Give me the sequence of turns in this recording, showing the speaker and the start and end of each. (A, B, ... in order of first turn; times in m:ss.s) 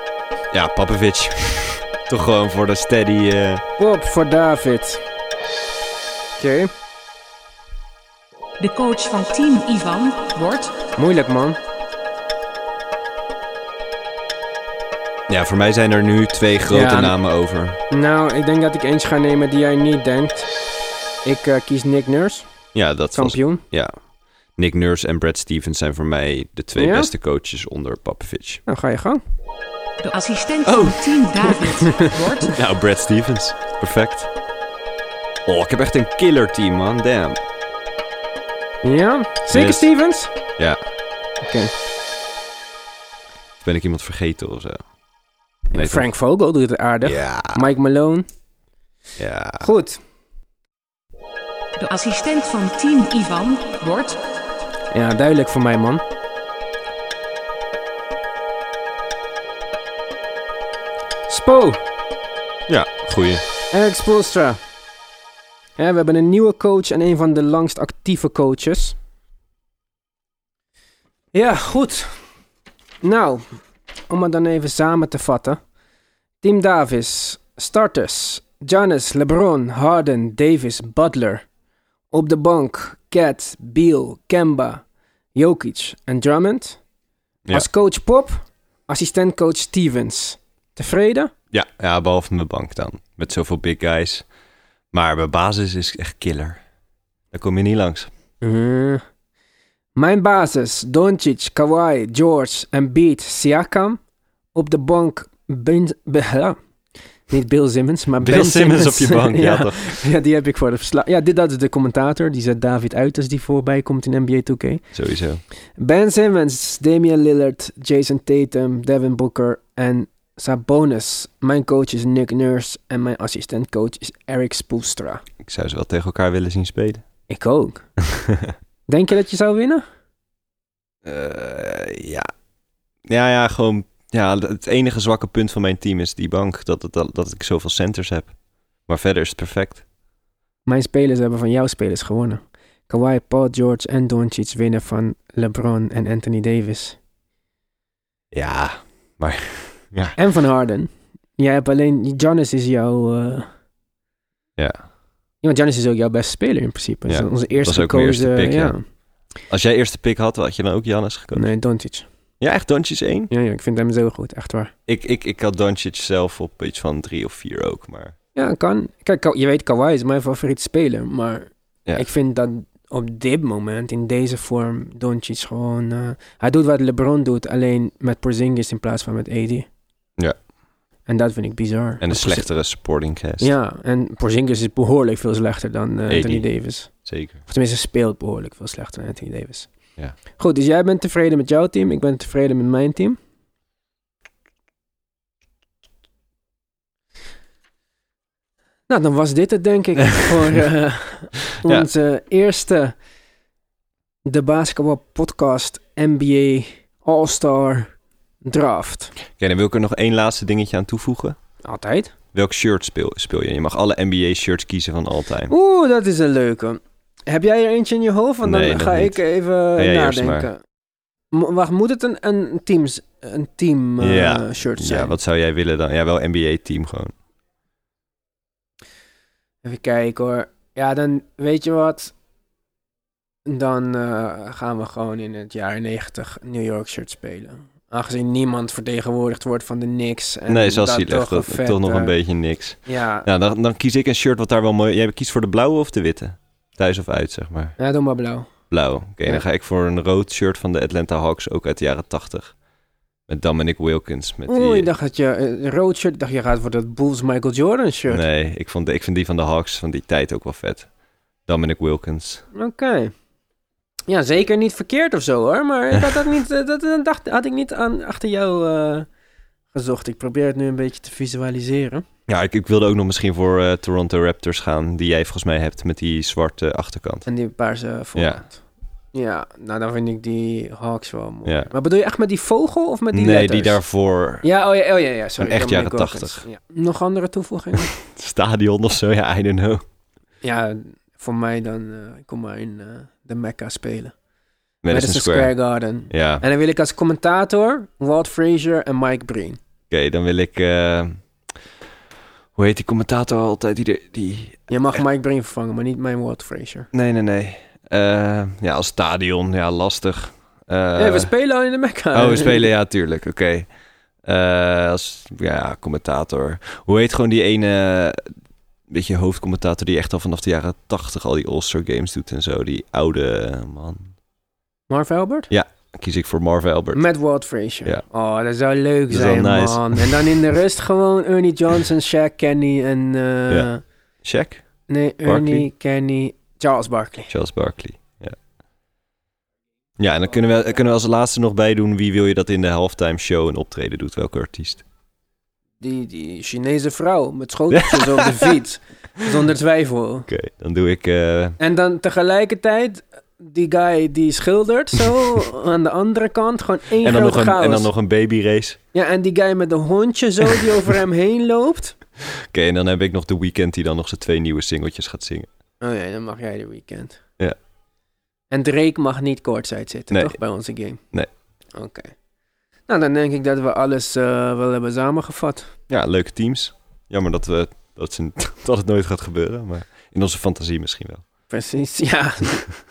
0:00.5-0:03.6 A
0:03.8-0:05.0 B
0:06.4-0:06.7 B
0:08.6-0:10.8 C
0:11.0-0:11.6 B
0:15.3-0:17.8 A
0:16.7-0:17.2 B
0:17.9-0:20.5 B
0:21.2-0:22.5 B
0:22.7-0:23.9 A
0:23.1-0:23.6 B
0:24.6-0:28.6 A
0:26.8-0:27.1 B
0:28.7-0:29.2 B
0:30.0-0:32.6 C
0:32.5-0:34.3 A
0:35.4-0:37.4 A
0:38.8-0:40.3 B
0:39.5-0:39.9 A
0:41.4-0:41.7 B
0:43.6-0:44.8 A
0:45.7-0:48.3 B
0:45.7-0:46.1 A
0:47.0-0:47.6 A
0:49.2-0:49.7 A
0:49.6-0:50.0 B
0:51.8-0:54.2 C
0:54.9-0:56.0 B
1:01.3-1:01.8 B
1:02.7-1:03.4 A
1:03.7-1:04.6 B
1:05.8-1:09.0 B
1:11.3-1:12.2 B
1:13.0-1:15.6 B
1:16.4-1:21.4 B
1:22.1-1:24.8 B
1:25.4-1:26.8 B
1:27.5-1:31.3 B
1:31.5-1:34.3 A
1:34.9-1:36.6 A
1:37.3-1:38.1 A
1:38.4-1:39.0 B
1:40.0-1:44.0 B
1:44.5-1:46.6 B
1:47.3-1:54.9 B
1:48.2-1:50.0 A
1:54.9-1:55.4 A
1:55.8-2:05.2 B
2:05.4-2:07.0 A
2:07.3-2:07.9 B
2:08.9-2:09.8 B
2:11.0-2:12.3 A
2:13.1-2:18.4 A
2:18.9-2:19.8 A
2:20.6-2:27.0 B
2:28.3-2:30.2 A
2:30.2-2:33.5 B
2:35.4-2:38.8 B
2:37.1-2:38.8 A
2:39.5-2:41.5 A
2:41.3-2:42.1 B
2:42.4-2:43.3 A
2:43.3-2:44.7 B
2:44.9-2:48.1 A
2:48.4-2:59.7 B
3:01.1-3:02.5 B
3:02.0-3:03.5 A
3:03.4-3:09.7 B
3:06.1-3:07.4 A
3:10.4-3:13.2 B
3:18.9-3:23.0 B
3:24.3-3:27.9 B
3:28.4-3:29.1 B
3:29.4-3:31.4 A
3:31.6-3:32.1 B
3:32.3-3:35.5 A
3:35.5-3:40.6 B
3:38.4-3:39.2 A
3:39.7-3:40.5 A
3:41.3-3:45.1 B
3:44.0-3:47.1 A
3:49.6-3:52.1 B
3:53.4-4:02.1 B
4:00.5-4:07.8 A
4:02.8-4:03.3 B
4:07.8-4:08.5 B
4:08.7-4:12.6 A
4:13.3-4:14.9 A
4:14.5-4:18.2 B
4:18.1-4:20.9 A
4:21.4-4:22.4 A
4:22.5-4:23.1 B
4:24.1-4:29.1 B
4:29.7-4:32.0 B
4:32.3-4:37.3 A
4:37.3-4:38.6 B
4:38.2-4:38.4 A
4:39.1-4:43.8 B
4:41.4-4:41.7 A
4:43.1-4:44.4 A
4:44.4-4:47.9 B
4:45.4-4:46.4 A
4:47.8-4:49.8 A
4:50.4-4:54.1 B
4:54.8-4:55.5 A
4:54.9-4:59.6 B
4:56.1-4:56.4 A
4:59.9-5:01.2 A
5:02.6-5:05.0 A
5:04.7-5:06.9 B
5:06.9-5:11.3 A
5:10.9-5:12.7 B
5:12.1-5:13.7 A
5:14.2-5:18.3 A
5:18.9-5:24.1 A
5:24.9-5:25.5 B
5:25.5-5:27.0 A
5:26.9-5:33.8 B
5:29.1-5:30.4 A
5:34.2-5:34.6 A
5:34.9-5:37.3 B
5:35.2-5:35.7 A
5:37.3-5:38.4 A
5:40.0-5:44.8 A
5:45.8-5:50.3 B
5:47.7-5:48.5 A
5:50.3-5:51.6 A
5:51.6-5:57.9 B
5:57.0-5:58.8 A
5:58.9-6:02.0 B
6:02.3-6:05.5 A
6:05.8-6:07.2 B
6:08.5-6:11.0 B
6:10.1-6:10.4 A
6:11.7-6:12.1 B
6:12.9-6:15.7 B
6:15.9-6:21.2 A
6:21.5-6:22.7 B